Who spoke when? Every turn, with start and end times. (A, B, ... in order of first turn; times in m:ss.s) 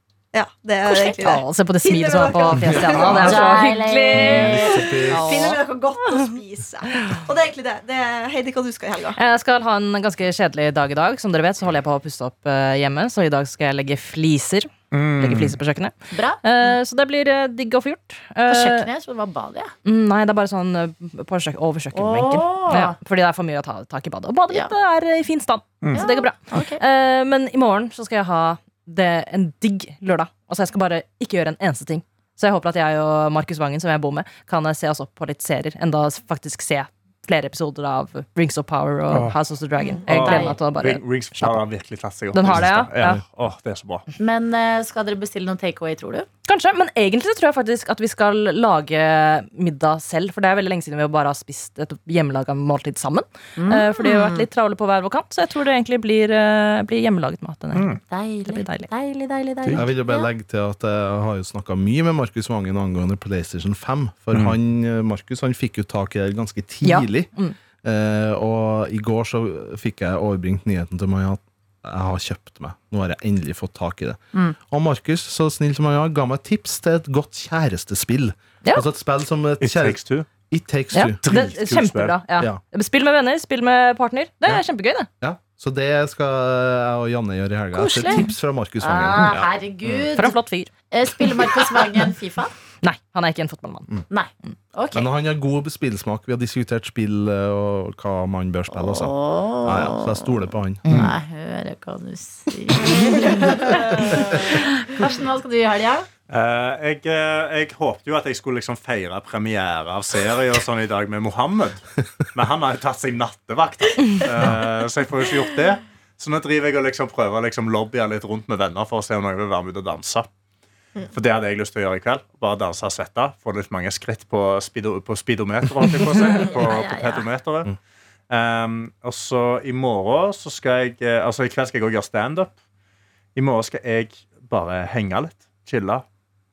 0:00.3-0:03.5 A
0:00.9-0:01.2 B
0:01.2-0:06.4 C
0:02.6-0:03.6 D
0:03.2-0:04.9 B
0:04.1-0:05.6 D
0:04.9-0:09.2 A
0:06.9-0:07.2 C
0:09.2-0:18.9 C
0:14.9-0:15.6 E
0:16.1-0:16.4 B
0:18.5-0:19.7 B
0:19.8-0:41.6 C
0:21.9-0:23.0 B
0:25.9-0:26.8 B
0:39.1-0:39.4 E
0:39.8-0:40.0 A
0:40.1-0:40.6 B
0:40.1-0:44.1 E
0:42.3-0:43.2 C
0:44.2-0:46.3 B
0:46.5-0:58.9 C
0:53.6-0:54.5 B
0:57.7-0:58.0 E
0:58.1-1:00.3 B
0:59.8-1:21.6 D
1:06.8-1:07.6 C
1:19.6-1:20.3 E
1:20.9-1:25.1 C
1:21.2-1:22.2 E
1:25.2-1:29.5 D
1:27.8-1:28.2 C
1:27.8-1:28.3 B
1:28.8-1:30.4 B
1:30.2-1:30.7 C
1:30.9-1:32.5 B
1:31.2-1:32.0 C
1:32.8-1:33.9 C
1:34.1-1:35.1 B
1:34.9-1:40.8 D
1:38.7-1:46.1 B
1:40.8-1:41.1 C
1:40.9-1:41.1 E
1:43.0-1:44.3 A
1:46.3-2:00.3 E
2:01.1-2:07.7 E
2:06.4-2:07.3 B
2:08.3-2:12.5 E
2:13.4-2:16.0 E